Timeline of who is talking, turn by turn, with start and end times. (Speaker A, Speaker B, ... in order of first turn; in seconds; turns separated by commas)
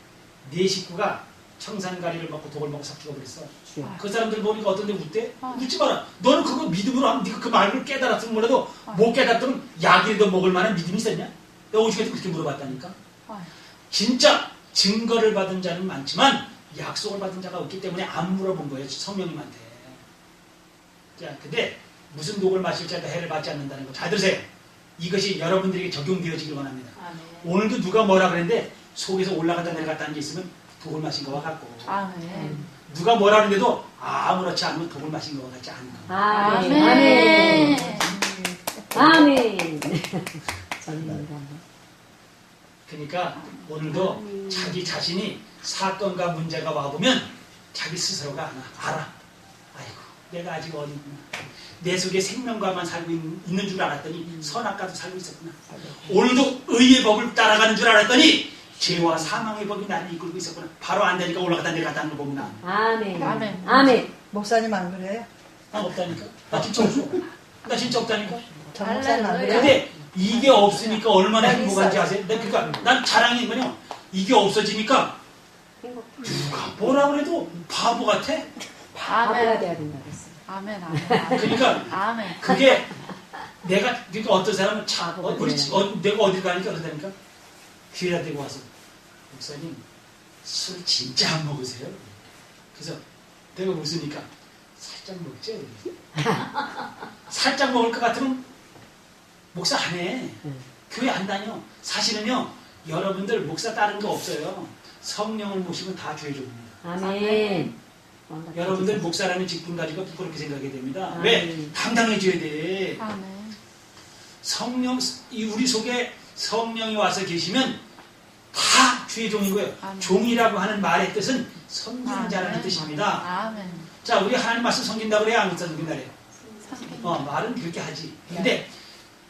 Speaker A: 0.4-12.9, Speaker B: 5.4-5.7, Speaker A: 13.9-20.0, Speaker A: 21.2-32.0, Speaker B: 31.9-32.7, Speaker C: 32.3-32.7, Speaker A: 32.9-36.3, Speaker C: 36.1-38.2, Speaker B: 36.2-38.1, Speaker D: 36.4-39.3, Speaker C: 38.9-41.6, Speaker A: 42.9-49.1, Speaker C: 43.9-44.9, Speaker A: 49.7-62.6, Speaker C: 58.9-59.3, Speaker C: 62.6-64.1, Speaker D: 63.2-65.3, Speaker B: 63.2-63.9, Speaker A: 65.7-68.5, Speaker D: 68.7-69.8, Speaker B: 68.7-69.8, Speaker A: 69.4-75.2, Speaker C: 69.5-69.8, Speaker C: 70.3-70.6, Speaker D: 71.3-72.4, Speaker C: 72.5-72.9, Speaker C: 75.8-76.9, Speaker A: 76.2-78.5, Speaker B: 79.0-79.7, Speaker C: 79.2-80.4, Speaker B: 80.5-82.6, Speaker C: 80.9-81.6, Speaker A: 81.3-83.0, Speaker A: 83.6-87.1, Speaker C: 85.0-85.9, Speaker A: 87.9-88.7, Speaker A: 89.3-89.8, Speaker A: 90.4-92.2, Speaker A: 92.7-93.0, Speaker A: 93.5-95.8, Speaker C: 96.2-96.6, Speaker A: 97.3-98.4, Speaker A: 99.5-106.8, Speaker C: 106.8-107.7, Speaker B: 107.0-107.8, Speaker C: 108.3-109.2, Speaker A: 108.5-113.0, Speaker C: 111.1-111.7, Speaker B: 113.0-113.6, Speaker A: 114.4-117.8, Speaker A: 118.5-123.3, Speaker B: 119.8-120.5, Speaker B: 122.0-123.9, Speaker A: 124.0-126.1, Speaker C: 126.5-127.0, Speaker B: 126.6-127.3, Speaker A: 127.0-128.7, Speaker B: 128.3-128.6